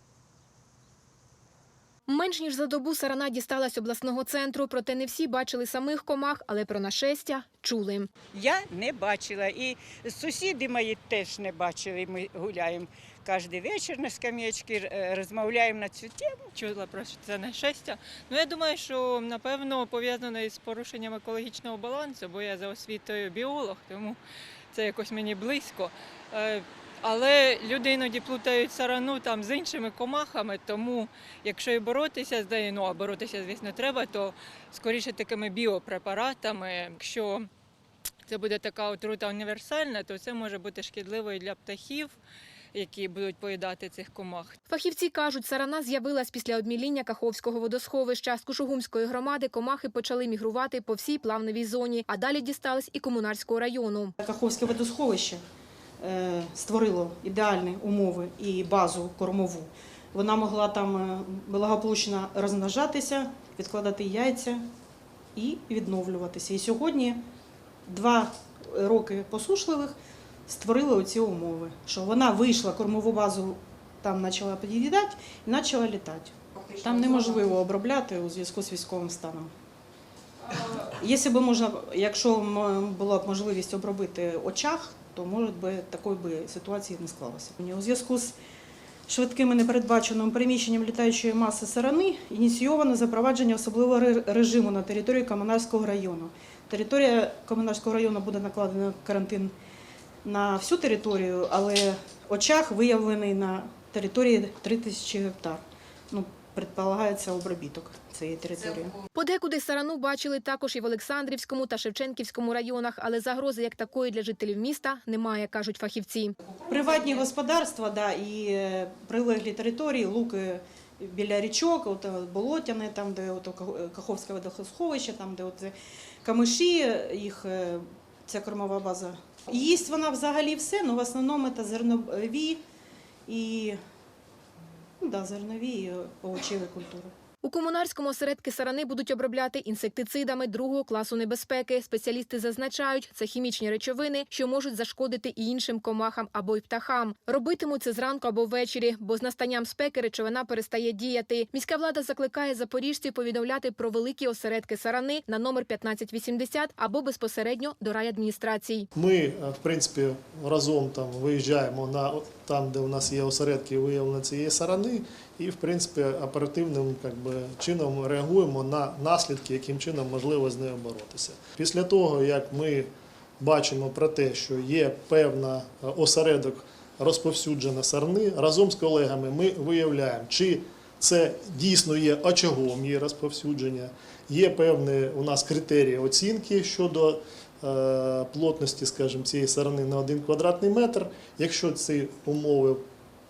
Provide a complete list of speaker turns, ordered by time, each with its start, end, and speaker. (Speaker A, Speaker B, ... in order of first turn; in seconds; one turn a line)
Speaker A: 2.1-8.1
Speaker B: 8.3-16.5
Speaker C: 16.5-24.2
Speaker C: 24.7-37.5
Speaker C: 38.3-42.1
Speaker C: 42.7-44.5
Speaker A: 44.7-54.1
Speaker D: 54.2-55.4
Speaker D: 56.0-64.6
Speaker D: 65.3-67.2
Speaker D: 67.8-69.9
Speaker D: 70.5-79.5
Speaker D: 80.7-88.3
Speaker D: 89.1-99.5
Speaker D: 100.2-109.0
Speaker A: 109.1-116.3
Speaker D: 116.7-132.6
Speaker D: 133.3-133.8
Speaker D: 135.0-137.1
Speaker A: 137.4-158.9
Speaker E: 158.9-172.9
Speaker E: 173.4-192.8